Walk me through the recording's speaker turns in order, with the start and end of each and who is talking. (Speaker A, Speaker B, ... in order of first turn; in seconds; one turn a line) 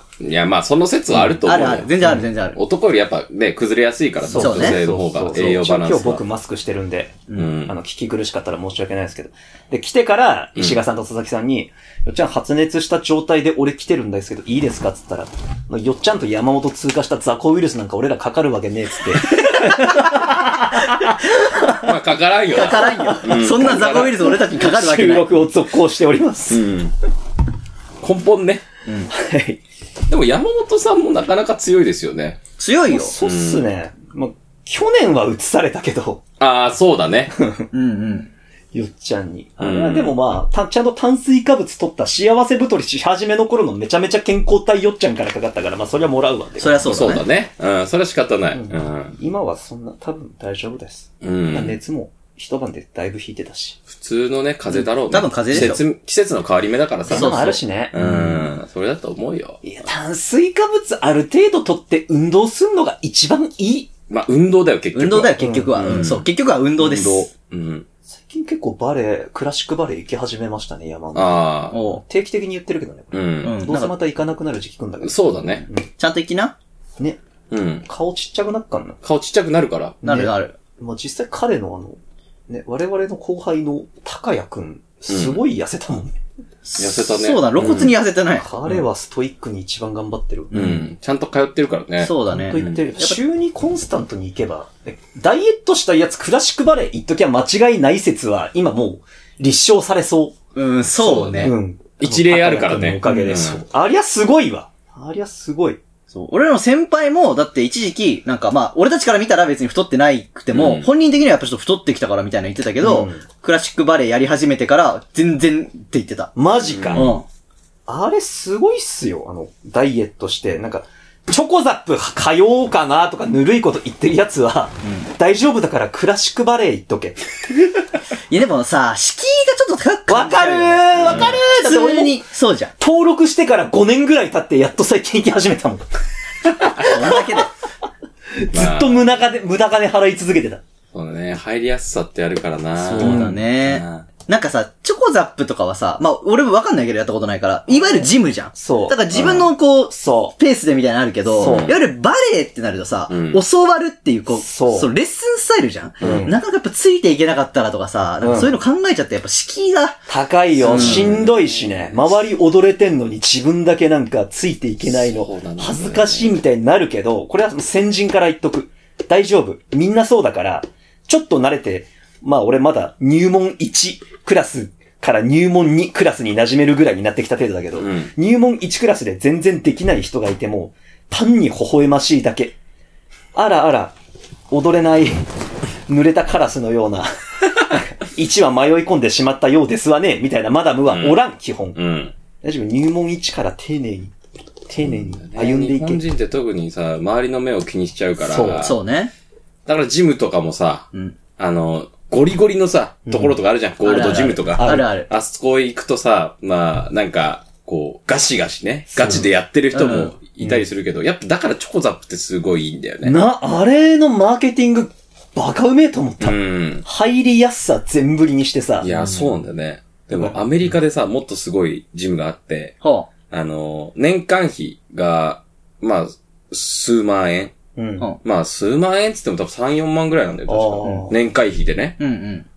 Speaker A: 0.2-6.2
Speaker B: 1.4-2.6
Speaker C: 4.2-21.9
Speaker B: 4.4-4.8
Speaker A: 7.4-7.8
Speaker A: 21.7-24.3
Speaker B: 22.5-25.3
Speaker C: 22.8-23.3
Speaker C: 24.3-26.6
Speaker A: 26.5-26.9
Speaker A: 28.0-28.6
Speaker C: 29.1-29.6
Speaker A: 30.1-32.4
Speaker B: 32.6-33.1
Speaker C: 32.9-36.2
Speaker A: 33.2-33.6
Speaker A: 36.4-37.3
Speaker C: 37.3-37.7
Speaker B: 37.7-38.3
Speaker C: 38.7-47.0
Speaker A: 39.6-40.1
Speaker B: 46.6-47.2
Speaker A: 46.9-49.2
Speaker C: 48.5-53.8
Speaker A: 51.2-51.8
Speaker A: 53.9-59.6
Speaker B: 55.1-55.8
Speaker C: 57.1-58.0
Speaker B: 57.1-58.5
Speaker C: 59.6-63.9
Speaker A: 64.1-66.3
Speaker B: 65.0-67.3
Speaker C: 65.4-65.8
Speaker A: 66.8-67.9
Speaker C: 68.1-75.9
Speaker A: 71.2-71.8
Speaker B: 71.7-72.0
Speaker A: 73.1-73.6
Speaker B: 73.4-73.9
Speaker A: 75.0-75.7
Speaker B: 76.0-76.5
Speaker A: 77.5-77.9
Speaker C: 77.9-79.0
Speaker A: 79.0-80.0
Speaker C: 80.0-86.2
Speaker B: 80.0-80.5
Speaker A: 85.1-85.4
Speaker B: 86.7-88.8
Speaker A: 86.8-87.9
Speaker C: 88.3-90.6
Speaker B: 90.5-90.9
Speaker A: 90.5-92.8
Speaker B: 92.0-93.2
Speaker C: 92.3-100.3
Speaker B: 100.5-101.5
Speaker A: 101.0-103.6
Speaker C: 101.4-105.8
Speaker B: 103.0-103.4
Speaker B: 106.1-116.3
Speaker A: 110.5-110.9
Speaker C: 112.8-113.2
Speaker C: 116.4-117.2
Speaker A: 116.7-117.2
Speaker B: 116.9-117.2
Speaker C: 117.9-127.2
Speaker B: 128.3-132.7
Speaker C: 130.1-132.2
Speaker A: 131.0-131.4
Speaker C: 132.8-135.9
Speaker C: 136.4-137.4
Speaker B: 136.8-137.5
Speaker C: 138.4-140.6
Speaker A: 138.5-139.0
Speaker A: 140.9-144.1
Speaker B: 142.8-160.0
Speaker C: 143.0-143.4
Speaker C: 147.7-150.3
Speaker A: 149.2-149.4
Speaker C: 151.3-151.8
Speaker A: 151.4-151.8
Speaker A: 153.1-153.4
Speaker C: 154.3-154.9
Speaker A: 156.0-156.3
Speaker C: 156.0-156.4
Speaker C: 158.2-158.6
Speaker C: 160.1-182.6
Speaker A: 160.6-162.1
Speaker B: 160.7-161.1
Speaker A: 164.8-166.4
Speaker A: 177.8-178.1
Speaker C: 183.3-183.9
Speaker C: 184.5-185.3
Speaker C: 185.9-191.8
Speaker A: 190.9-191.2
Speaker A: 191.8-192.1
Speaker C: 192.4-194.1
Speaker C: 194.7-196.0
Speaker A: 194.9-198.8
Speaker C: 198.2-198.7
Speaker B: 198.6-199.1
Speaker A: 199.7-213.2
Speaker C: 203.1-203.4
Speaker B: 203.8-205.1
Speaker C: 204.6-204.9
Speaker C: 208.9-209.3
Speaker B: 209.7-210.1
Speaker C: 213.0-218.9
Speaker A: 216.2-216.8
Speaker A: 218.8-222.8
Speaker B: 218.9-219.3
Speaker B: 222.8-223.1
Speaker A: 223.3-227.6
Speaker C: 227.8-228.1
Speaker A: 228.2-232.0
Speaker C: 230.5-231.2
Speaker B: 230.8-231.1
Speaker B: 232.0-232.5